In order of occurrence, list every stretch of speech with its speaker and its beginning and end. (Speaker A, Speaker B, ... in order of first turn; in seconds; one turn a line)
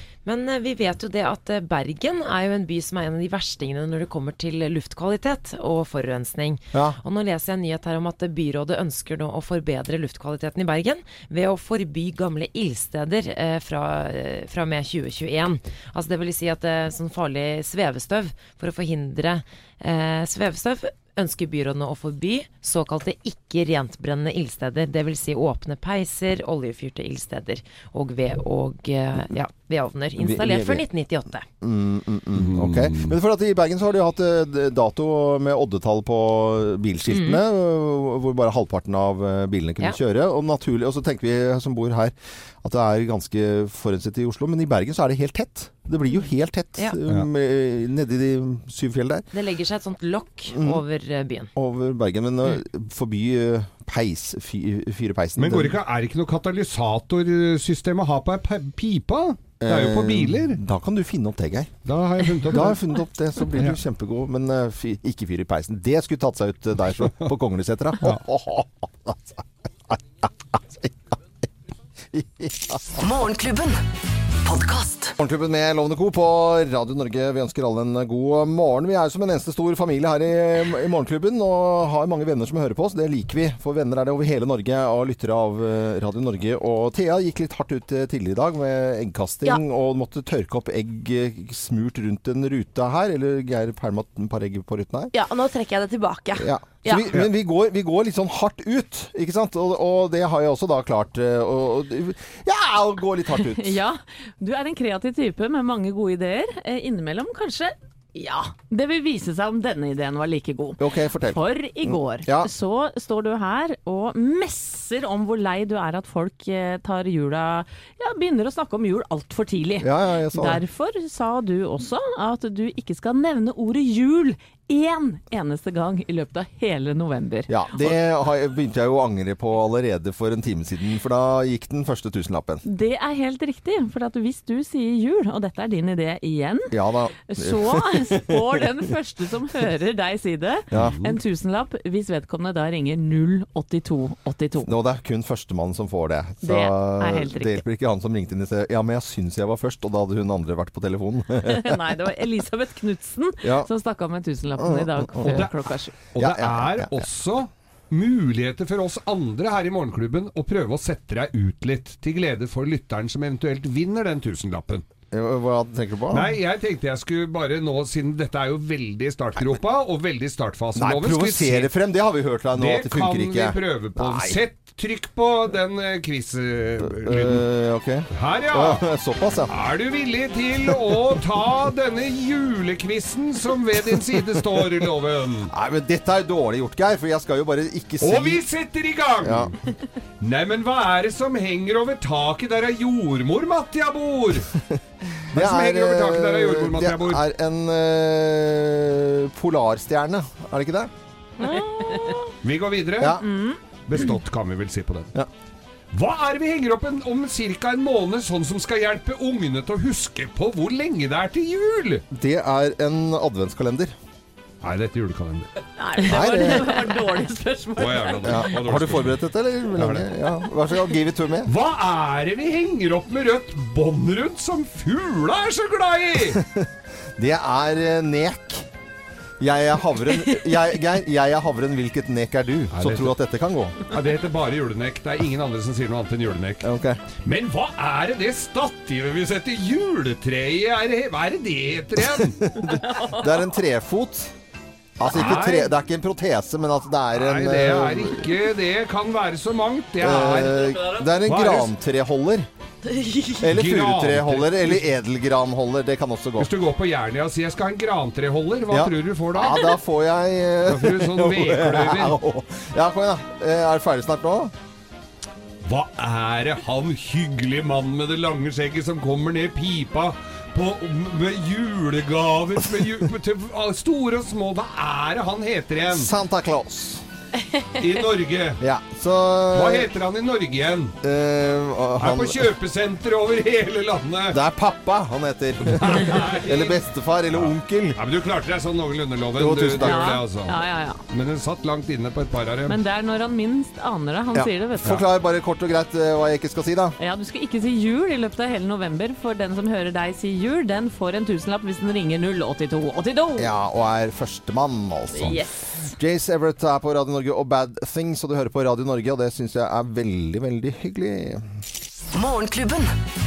Speaker A: 0.2-31.5
Speaker B: 6.7-7.0
Speaker B: 30.2-30.9
Speaker B: 31.6-49.3
Speaker C: 32.3-33.1
Speaker A: 37.1-37.4
Speaker A: 49.3-51.5
Speaker B: 50.5-50.8
Speaker B: 51.5-55.8
Speaker C: 55.4-60.6
Speaker B: 59.6-61.8
Speaker C: 61.8-62.8
Speaker B: 62.5-69.2
Speaker B: 69.9-71.1
Speaker B: 72.1-73.0
Speaker D: 73.0-73.8
Speaker D: 74.4-75.1
Speaker B: 75.2-95.1
Speaker E: 95.1-97.1
Speaker B: 96.4-103.8
Speaker F: 103.4-127.9
Speaker B: 110.8-112.5
Speaker B: 119.8-120.6
Speaker B: 127.5-132.6
Speaker F: 132.6-136.7
Speaker B: 136.7-138.6
Speaker F: 137.2-144.7
Speaker C: 140.8-141.2
Speaker B: 144.6-151.8
Speaker F: 146.4-147.6
Speaker F: 151.4-156.0
Speaker B: 153.4-153.7
Speaker B: 154.6-155.4
Speaker C: 155.2-155.6
Speaker C: 156.1-164.8
Speaker B: 156.2-157.0
Speaker B: 165.1-166.3
Speaker C: 166.1-171.7
Speaker B: 170.7-174.4
Speaker C: 172.5-177.4
Speaker B: 176.8-179.5
Speaker C: 178.1-178.8
Speaker C: 179.5-185.5
Speaker B: 185.5-188.4
Speaker C: 188.0-189.6
Speaker B: 189.2-189.5
Speaker C: 190.2-194.5
Speaker C: 195.3-197.2
Speaker B: 195.3-200.9
Speaker E: 201.4-202.3
Speaker F: 201.9-202.2
Speaker C: 202.4-203.2
Speaker B: 203.0-203.2
Speaker F: 203.2-203.6
Speaker C: 203.8-205.1
Speaker C: 205.9-212.0
Speaker B: 212.1-213.9
Speaker C: 214.6-215.5
Speaker F: 215.8-218.4
Speaker B: 216.1-216.7
Speaker C: 217.8-219.2
Speaker B: 218.2-221.5
Speaker C: 219.8-220.1
Speaker C: 221.4-226.4
Speaker B: 226.3-228.7
Speaker B: 229.4-233.8
Speaker C: 232.7-233.1
Speaker C: 233.8-236.7
Speaker B: 236.6-237.0
Speaker C: 237.2-242.8
Speaker B: 242.2-244.3
Speaker F: 242.8-243.2
Speaker B: 245.0-248.3
Speaker C: 245.0-245.7
Speaker C: 247.1-251.7
Speaker B: 250.0-252.5
Speaker E: 252.8-253.4
Speaker B: 253.4-256.5
Speaker C: 253.5-254.9
Speaker C: 256.4-259.8
Speaker B: 258.7-264.5
Speaker C: 260.6-262.1
Speaker C: 265.6-276.1
Speaker B: 275.9-277.0
Speaker C: 277.8-278.6
Speaker B: 278.6-279.9
Speaker C: 279.5-280.9
Speaker B: 281.0-282.5
Speaker C: 282.0-284.4
Speaker B: 284.3-288.0
Speaker C: 285.6-292.8
Speaker B: 289.4-290.1
Speaker F: 289.8-291.0
Speaker F: 292.7-295.0
Speaker B: 294.3-296.9
Speaker F: 297.0-303.5
Speaker B: 303.4-305.4
Speaker F: 305.1-305.9
Speaker B: 305.9-311.5
Speaker D: 312.1-313.0